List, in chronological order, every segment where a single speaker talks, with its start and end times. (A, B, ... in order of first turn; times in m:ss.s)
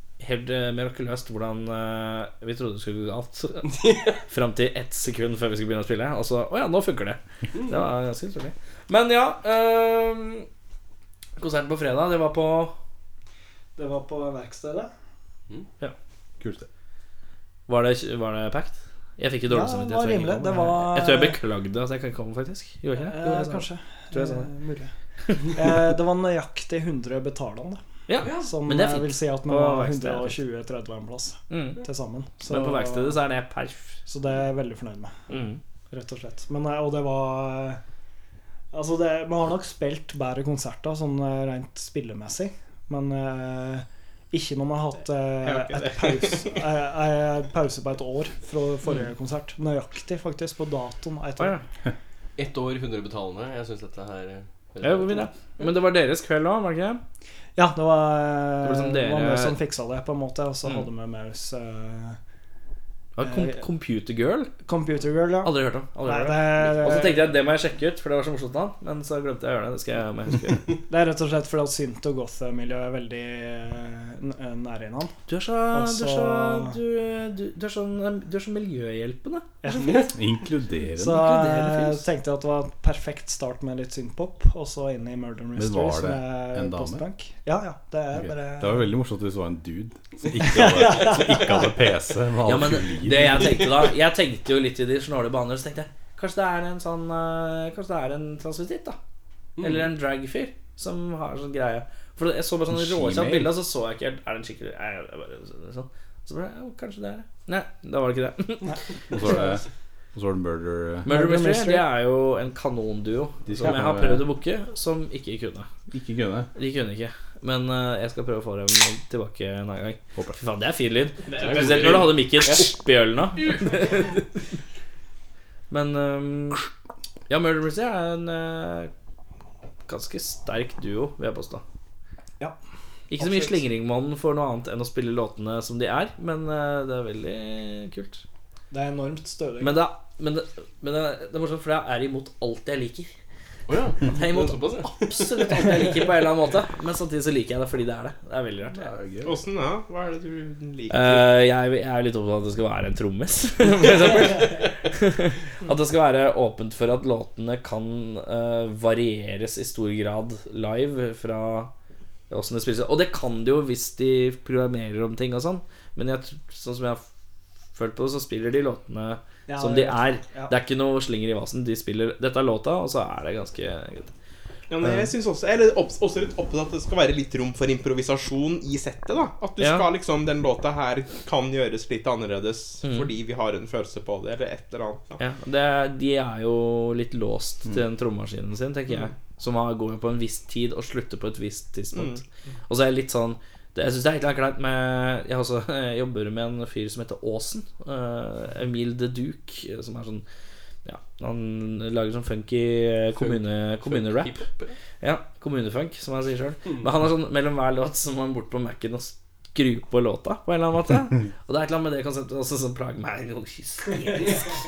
0:00.2-0:10.5 A
0:03.7-0:04.2 B
0:11.4-0:12.7 A
0:13.8-0:14.9 C
0:16.4-0:16.7 D
0:17.7-0:24.5 A
0:19.5-0:21.4 C
0:22.9-0:24.9 C
0:25.5-0:27.8 C
0:28.1-0:30.4 A
0:28.2-0:28.5 B
0:28.3-0:33.2 C
0:31.5-0:31.8 A
0:32.5-0:34.0 A
0:34.1-0:35.2 C
0:35.3-0:35.6 A
0:35.9-0:37.8 C
0:38.7-0:51.6 C
0:45.4-0:46.6 E
0:51.4-0:51.6 A
0:52.4-0:55.4 B
0:54.8-0:57.0 A
0:57.6-1:02.2 C
0:58.6-0:59.5 A
1:03.2-1:04.5 A
1:03.2-1:03.6 C
1:04.6-1:07.2 C
1:05.4-1:10.6 A
1:10.9-1:15.1 C
1:15.3-1:19.6 A
1:15.7-1:16.8 C
1:19.6-1:20.1 C
1:20.0-1:21.2 D
1:21.0-1:28.8 C
1:21.2-1:22.0 A
1:25.6-1:27.0 D
1:28.1-1:33.6 D
1:30.5-1:31.7 C
1:32.4-1:39.0 A
1:39.6-1:39.9 B
1:39.6-1:48.8 A
1:42.7-1:43.5 D
1:48.6-1:49.4 C
1:49.1-1:51.1 D
1:51.0-1:51.9 C
1:51.0-1:55.7 A
1:53.4-1:54.2 D
1:55.9-1:56.5 D
1:56.5-2:04.1 A
2:01.3-2:02.0 E
2:01.4-2:02.7 B
2:03.4-2:04.2 B
2:05.7-2:06.6 A
2:07.3-2:08.9 A
2:09.9-2:11.6 A
2:13.1-2:18.2 A
2:13.2-2:13.6 C
2:18.7-2:19.8 C
2:19.6-2:23.1 A
2:23.7-2:25.8 B
2:24.0-2:28.9 A
2:28.7-2:29.4 D
2:29.2-2:31.3 E
2:30.9-2:41.7 A
2:42.3-2:47.0 A
2:47.7-2:54.1 A
2:49.5-2:50.5 C
2:54.7-3:05.2 E
2:59.6-2:59.9 A
3:02.8-3:03.1 A
3:05.2-3:20.2 A
3:11.9-3:12.2 E
3:20.8-3:24.4 A
3:23.2-3:24.8 B
3:25.0-3:34.5 A